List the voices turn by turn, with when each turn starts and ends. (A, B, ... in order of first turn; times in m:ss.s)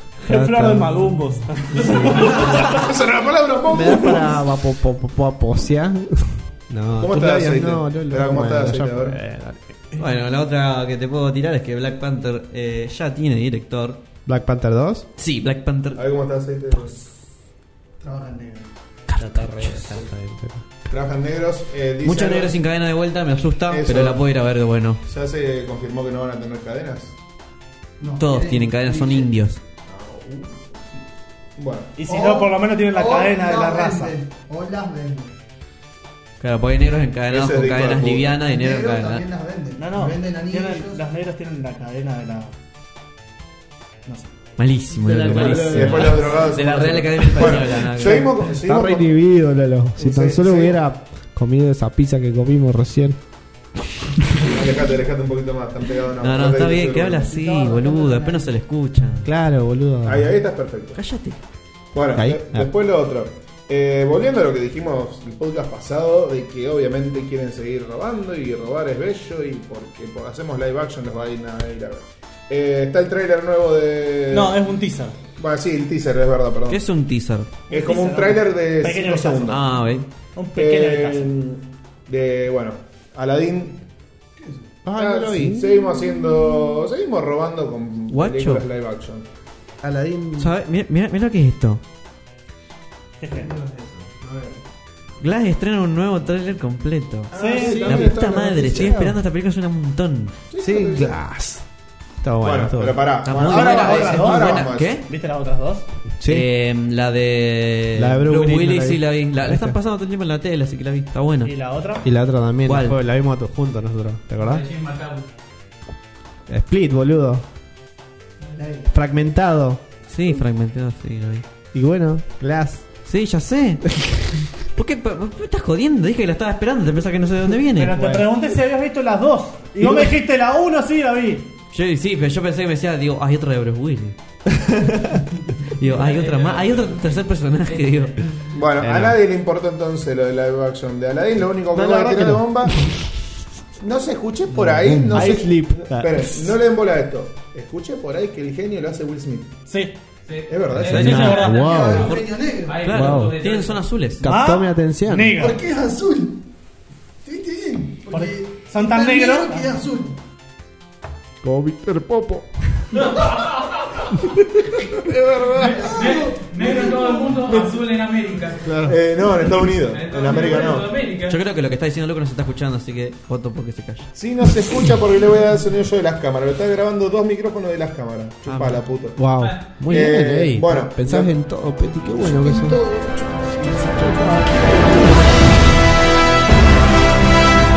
0:00.2-0:02.8 A
0:00.2-0:01.2 B
0:01.7-0:02.5 B
0:02.2-0:04.4 C
0:03.7-0:10.1 B
0:07.0-0:09.2 C
0:10.0-0:14.0 D
0:14.2-0:15.1 B
0:15.2-0:16.0 D
0:15.9-0:17.0 C
0:18.0-0:18.7 E
0:19.1-0:20.0 D
0:19.2-0:20.6 B
0:20.9-0:22.6 C
0:22.0-0:25.0 D
0:23.7-0:24.2 C
0:25.0-0:27.1 C
0:28.0-0:29.3 E
0:28.2-0:29.6 D
0:29.9-0:30.8 C
0:31.6-0:31.9 C
0:32.0-0:34.1 A
0:32.1-0:35.3 E
0:36.4-0:39.2 D
0:37.3-0:38.4 C
0:38.4-0:41.0 E
0:39.8-0:42.5 A
0:44.0-0:44.3 A
0:44.6-0:48.3 D
0:45.0-0:46.6 B
0:45.3-0:49.1 C
0:47.4-0:53.2 B
0:50.0-0:50.8 C
0:54.4-0:57.3 C
0:56.2-0:59.3 D
0:57.3-0:58.5 E
0:59.2-1:00.3 B
1:00.0-1:01.0 C
1:00.9-1:01.4 D
1:01.9-1:14.6 C
1:02.1-1:02.7 B
1:14.3-1:15.2 A
1:15.4-1:16.8 C
1:16.7-1:17.6 D
1:17.7-1:19.6 A
1:17.7-1:19.6 C
1:19.5-1:20.1 D
1:20.3-1:21.3 A
1:20.5-1:23.8 C
1:24.4-1:24.7 E
1:24.8-1:25.8 B
1:24.9-1:29.2 C
1:28.1-1:28.6 D
1:29.8-1:30.5 B
1:30.4-1:31.8 D
1:33.2-1:33.5 A
1:33.5-1:34.2 B
1:35.2-1:40.4 D
1:37.3-1:38.0 A
1:37.3-1:39.1 C
1:37.8-1:38.7 B
1:40.5-1:41.2 C
1:40.6-1:41.6 B
1:42.2-1:43.0 B
1:42.4-1:45.0 C
1:43.2-1:45.0 D
1:43.4-1:45.8 A
1:46.2-1:46.5 B
1:46.3-1:51.5 D
1:48.0-1:49.8 B
1:51.4-1:52.0 A
1:52.0-1:54.6 B
1:52.6-1:53.0 D
1:54.4-1:55.3 F
1:56.5-1:57.4 B
1:58.6-1:58.9 E
1:58.9-1:59.8 B
2:00.1-2:01.4 D
2:01.7-2:02.8 B
2:03.0-2:03.9 D
2:04.0-2:04.4 B
2:04.7-2:08.1 D
2:07.8-2:11.5 A
2:07.9-2:08.2 B
2:11.7-2:14.2 D
2:14.6-2:15.2 B
2:15.7-2:18.2 D
2:15.8-2:18.1 F
2:18.5-2:22.8 C
2:18.8-2:19.2 B
2:21.7-2:22.9 B
2:23.8-2:29.5 C
2:24.6-2:26.6 B
2:29.7-2:29.9 A
2:30.3-2:33.8 F
2:30.5-2:31.2 C
2:30.7-2:32.1 B
2:30.8-2:32.3 D
2:30.9-2:31.8 A
2:31.5-2:32.9 E
2:32.8-2:34.3 D
2:32.9-2:33.4 B
2:34.2-2:35.4 B
2:34.2-2:35.6 A
2:35.4-2:36.4 E
2:37.2-2:40.2 E
2:38.1-2:39.6 A
2:41.4-2:43.0 B
2:42.9-2:44.2 F
2:44.9-2:46.2 C
2:45.6-2:48.8 F
2:45.6-2:47.7 E
2:48.6-2:49.0 B
2:48.8-2:50.9 C
2:49.9-2:51.4 F
2:51.3-2:54.1 D
2:54.2-2:59.2 C
2:58.4-2:58.8 D
2:59.2-3:02.8 B
2:59.4-2:59.8 F
2:59.8-3:01.3 C
3:02.1-3:05.4 E
3:03.6-3:05.4 B